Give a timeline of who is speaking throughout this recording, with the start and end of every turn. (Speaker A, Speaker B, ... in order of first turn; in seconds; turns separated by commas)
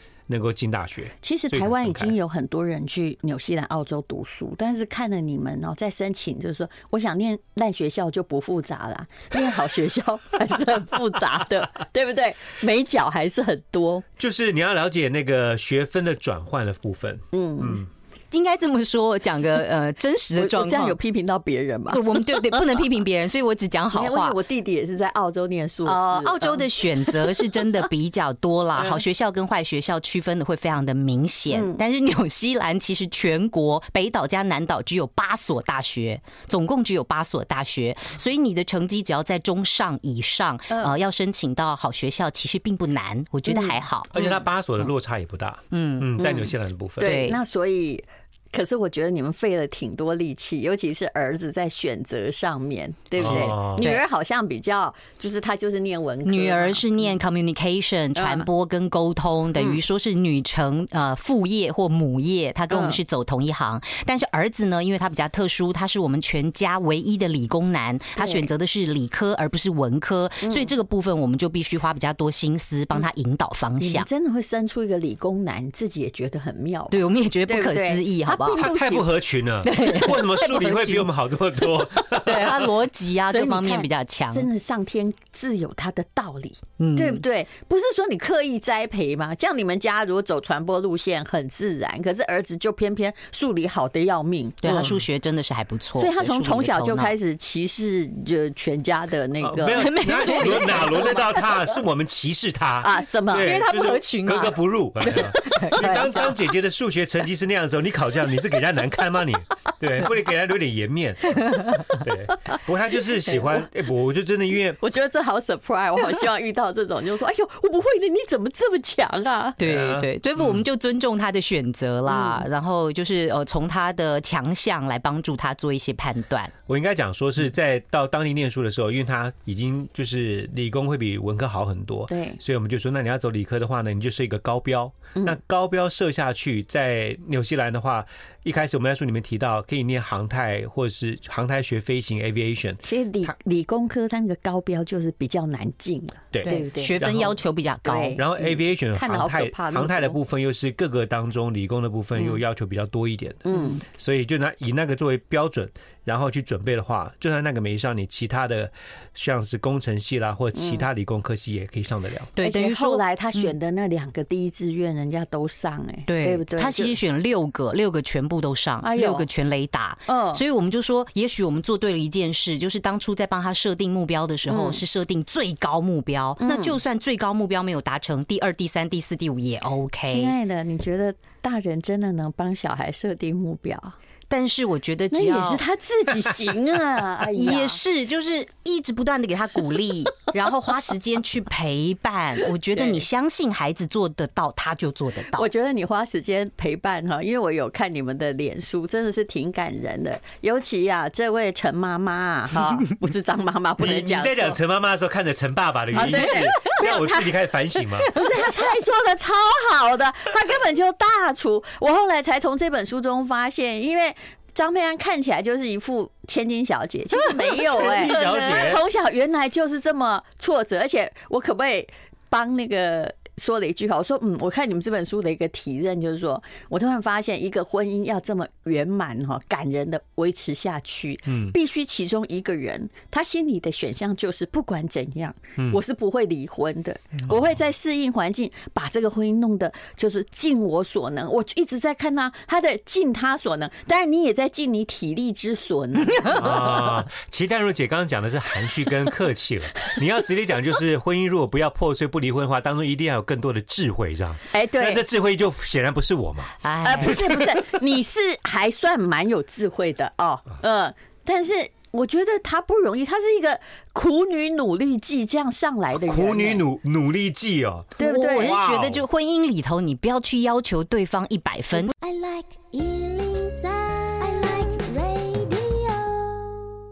Speaker A: 0.3-2.1, Speaker B: 1.2-14.0, Speaker A: 14.2-17.9, Speaker B: 17.3-17.8, Speaker C: 18.3-20.9, Speaker B: 20.3-22.6, Speaker C: 21.9-24.4, Speaker B: 23.9-27.3, Speaker C: 25.9-44.2, Speaker B: 31.5-31.8, Speaker B: 43.5-43.8, Speaker A: 44.1-47.1, Speaker C: 45.7-46.2, Speaker B: 46.2-56.8, Speaker C: 47.0-47.4, Speaker A: 53.2-53.9, Speaker C: 53.2-54.0, Speaker C: 56.2-74.1, Speaker B: 58.1-58.5, Speaker B: 59.5-59.8, Speaker B: 62.7-63.0, Speaker B: 68.2-68.5, Speaker B: 70.4-70.7, Speaker B: 73.8-79.1, Speaker C: 76.9-78.7, Speaker A: 78.5-82.7, Speaker C: 79.6-81.1, Speaker B: 82.1-82.3, Speaker C: 82.1-84.5, Speaker B: 83.3-95.0, Speaker C: 86.8-87.2, Speaker C: 94.6-97.1, Speaker B: 96.0-101.4, Speaker A: 99.4-114.8, Speaker C: 99.7-101.2, Speaker B: 102.8-103.6, Speaker C: 103.3-106.3, Speaker B: 105.0-106.3, Speaker C: 111.5-111.9, Speaker B: 114.8-119.6, Speaker C: 119.6-126.5, Speaker A: 119.6-120.6, Speaker B: 122.1-122.4, Speaker A: 126.7-143.3, Speaker B: 132.1-132.4, Speaker B: 135.1-135.4, Speaker B: 142.8-147.0, Speaker A: 146.3-147.4, Speaker C: 146.4-148.2, Speaker B: 147.8-150.2, Speaker A: 148.2-162.3, Speaker B: 153.4-153.8, Speaker B: 160.5-160.8, Speaker C: 162.3-163.5, Speaker B: 162.4-166.9, Speaker C: 166.1-180.3, Speaker B: 168.8-169.2, Speaker B: 170.1-170.4, Speaker B: 174.5-174.8, Speaker B: 176.4-176.8, Speaker B: 180.0-183.9, Speaker C: 184.3-185.6, Speaker B: 185.1-187.8, Speaker C: 187.3-195.5, Speaker B: 192.7-193.0, Speaker B: 195.3-204.6, Speaker A: 203.8-208.1, Speaker B: 205.9-207.3, Speaker C: 206.0-206.5, Speaker B: 208.1-246.9, Speaker A: 217.7-218.8, Speaker A: 231.3-231.5, Speaker A: 246.3-257.6, Speaker B: 254.5-255.0, Speaker C: 256.6-257.2, Speaker B: 256.8-266.6, Speaker A: 265.9-269.0, Speaker B: 268.0-268.6, Speaker C: 268.0-271.9, Speaker D: 271.9-276.6